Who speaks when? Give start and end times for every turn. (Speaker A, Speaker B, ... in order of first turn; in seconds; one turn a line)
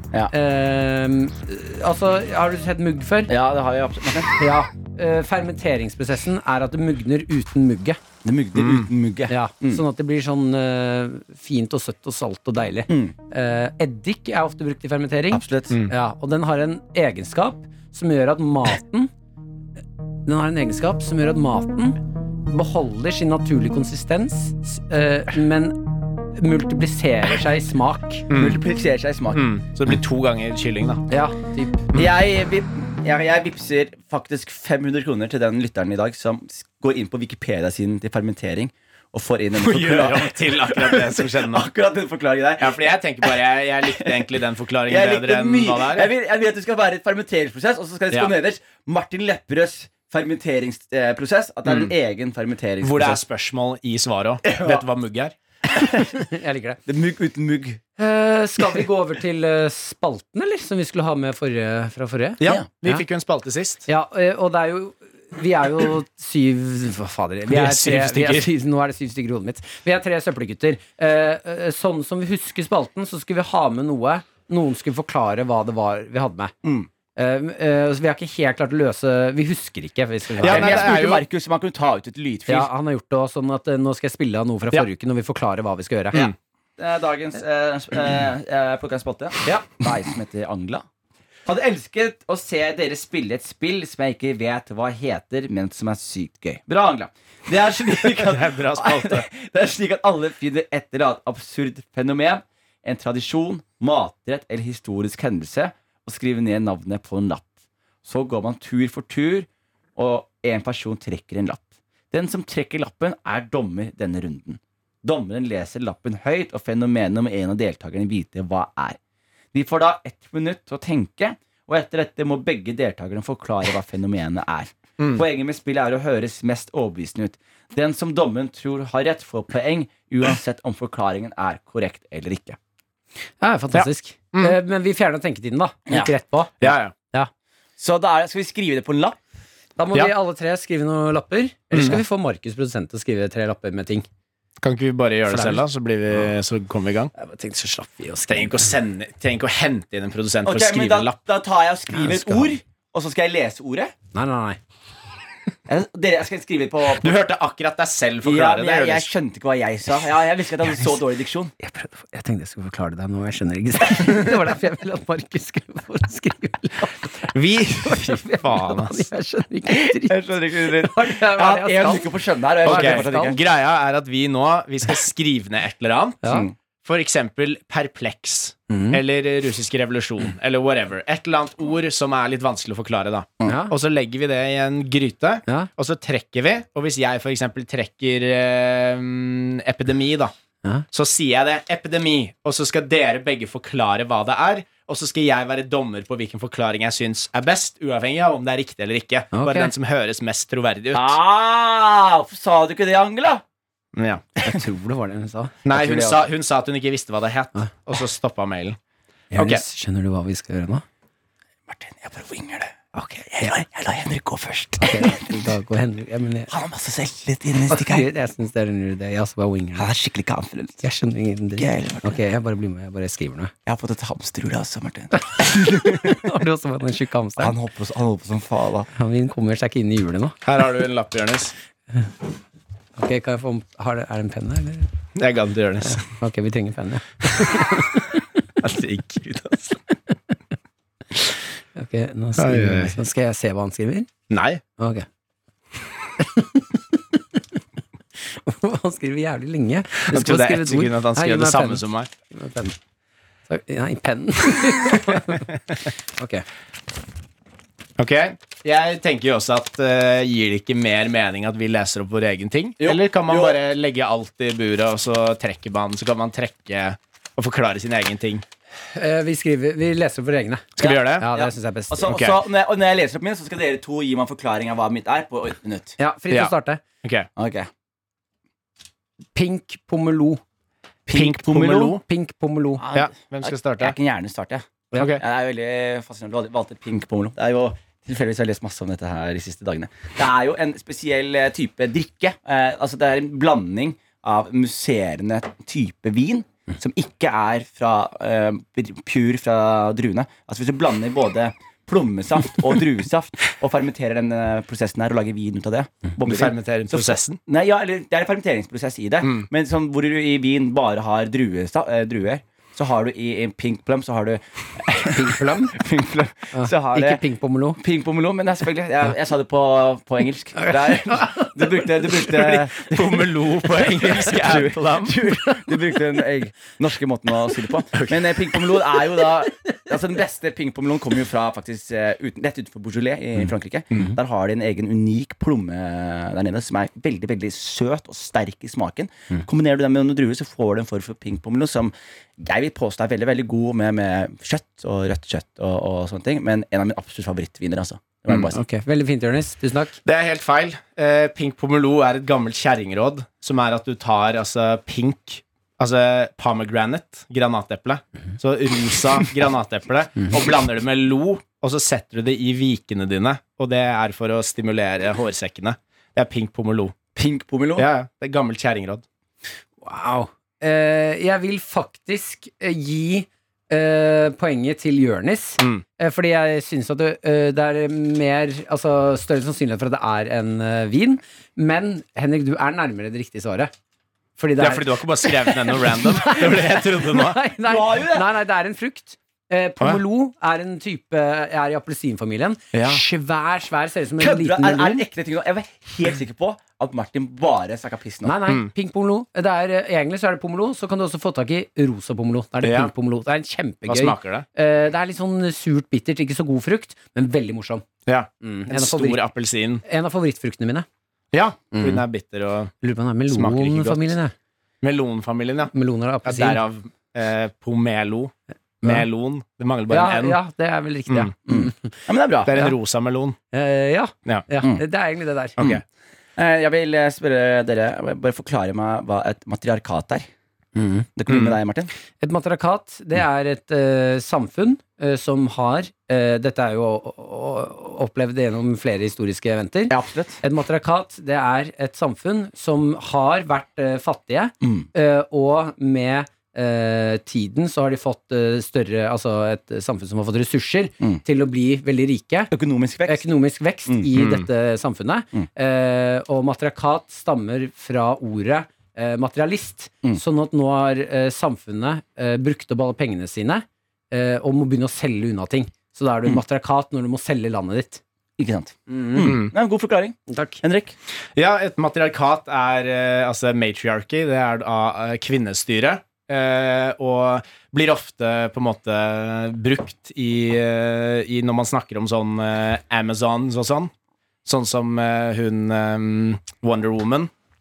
Speaker A: 0.3-3.3
Speaker B: 3.3-4.3
Speaker A: 4.4-8.0
Speaker B: 8.2-9.8
Speaker C: 8.6-8.9
Speaker A: 9.3-19.1
Speaker B: 12.9-13.1
Speaker B: 15.3-15.8
Speaker A: 20.3-28.3
Speaker C: 28.3-28.6
Speaker B: 28.3-29.5
Speaker C: 29.3-31.0
Speaker A: 31.1-31.9
Speaker B: 31.9-44.3
Speaker C: 39.6-41.7
Speaker C: 42.6-46.1
Speaker B: 44.9-53.2
Speaker C: 51.7-51.9
Speaker C: 52.8-55.4
Speaker B: 54.4-54.9
Speaker B: 55.7-56.1
Speaker A: 56.1-56.8
Speaker B: 56.9-57.8
Speaker A: 58.0-63.0
Speaker C: 62.4-63.9
Speaker A: 63.9-76.5
Speaker C: 67.5-68.5
Speaker A: 77.2-80.9
Speaker C: 80.4-81.2
Speaker B: 80.4-82.7
Speaker A: 82.5-86.2
Speaker B: 86.1-90.8
Speaker B: 91.5-107.5
Speaker C: 97.9-99.3
Speaker B: 108.0-119.0
Speaker B: 119.5-132.6
Speaker A: 133.4-137.3
Speaker C: 133.7-134.6
Speaker C: 136.6-136.9
Speaker B: 137.8-139.2
Speaker A: 139.8-144.1
Speaker C: 141.7-142.0
Speaker C: 144.6-147.1
Speaker A: 145.3-145.7
Speaker A: 147.1-148.7
Speaker C: 148.3-151.2
Speaker B: 150.4-153.9
Speaker A: 151.9-152.5
Speaker A: 154.1-154.6
Speaker B: 155.7-157.2
Speaker C: 157.0-159.1
Speaker B: 158.2-161.5
Speaker A: 161.6-172.1
Speaker C: 167.3-169.1
Speaker B: 169.7-173.4
Speaker A: 172.6-173.4
Speaker C: 172.7-176.2
Speaker B: 176.3-176.5
Speaker C: 176.8-190.3
Speaker A: 178.7-179.0
Speaker A: 183.5-183.7
Speaker C: 190.9-201.2
Speaker A: 199.3-199.7
Speaker B: 200.9-203.4
Speaker C: 203.9-204.2
Speaker A: 204.4-205.6
Speaker C: 205.7-208.8
Speaker B: 205.7-206.3
Speaker A: 209.3-210.8
Speaker C: 209.3-209.6
Speaker B: 211.7-212.7
Speaker A: 212.9-213.6
Speaker B: 213.3-215.5
Speaker A: 214.8-216.5
Speaker B: 216.5-218.1
Speaker A: 217.7-219.9
Speaker B: 219.8-220.8
Speaker A: 220.8-223.5
Speaker B: 221.6-222.2
Speaker B: 223.7-225.6
Speaker A: 225.2-227.5
Speaker B: 227.4-228.9
Speaker A: 228.9-230.4
Speaker C: 230.4-231.5
Speaker A: 233.0-234.9
Speaker C: 235.2-236.0
Speaker A: 235.8-238.2
Speaker C: 238.6-239.8
Speaker A: 241.8-244.1
Speaker C: 242.4-243.0
Speaker C: 244.3-244.6
Speaker A: 244.8-245.1
Speaker A: 246.2-246.8
Speaker A: 248.3-252.8
Speaker C: 250.1-252.1
Speaker A: 253.5-255.6
Speaker A: 256.2-256.4
Speaker C: 258.0-268.4
Speaker B: 262.8-263.6
Speaker A: 268.9-272.1
Speaker C: 270.8-271.3
Speaker B: 270.8-276.0
Speaker C: 272.1-272.4
Speaker A: 276.0-276.8
Speaker C: 276.3-277.3
Speaker B: 277.4-277.7
Speaker A: 279.3-280.4
Speaker B: 281.1-282.0
Speaker C: 281.1-282.0
Speaker A: 282.1-282.8
Speaker B: 282.8-317.2
Speaker C: 282.9-284.0
Speaker C: 284.9-285.2
Speaker C: 306.2-307.4
Speaker A: 315.1-315.7
Speaker A: 316.5-317.8
Speaker B: 317.8-348.6
Speaker A: 320.6-322.3
Speaker C: 322.4-325.2
Speaker A: 325.3-326.0
Speaker C: 327.9-328.3
Speaker A: 329.2-329.8
Speaker A: 348.5-350.0
Speaker C: 350.1-366.9
Speaker B: 367.1-367.9
Speaker C: 367.8-369.0
Speaker A: 369.8-383.7
Speaker C: 375.6-375.8
Speaker A: 384.4-395.1
Speaker C: 384.6-387.4
Speaker B: 387.6-388.3
Speaker C: 392.7-393.0
Speaker B: 394.2-398.3
Speaker A: 398.2-407.9
Speaker C: 402.6-402.9
Speaker C: 403.9-404.4
Speaker C: 408.1-409.8
Speaker A: 408.4-409.2
Speaker A: 409.8-410.9
Speaker C: 411.3-412.7
Speaker A: 411.7-412.0
Speaker A: 412.8-414.3
Speaker C: 413.3-414.1
Speaker C: 414.8-415.7
Speaker A: 415.7-416.6
Speaker C: 416.2-420.4
Speaker A: 419.9-422.7
Speaker B: 421.5-422.5
Speaker C: 422.5-423.4
Speaker A: 423.5-425.6
Speaker B: 426.4-430.3
Speaker A: 430.8-431.1
Speaker B: 431.2-431.9
Speaker C: 431.3-431.6
Speaker A: 432.2-452.5
Speaker B: 439.9-440.4
Speaker B: 444.6-444.9
Speaker B: 452.5-453.3
Speaker A: 453.1-468.0
Speaker C: 454.1-454.5
Speaker B: 468.4-470.9
Speaker A: 468.9-469.4
Speaker C: 469.2-469.5
Speaker A: 470.3-470.6
Speaker C: 471.4-483.9
Speaker C: 484.4-487.3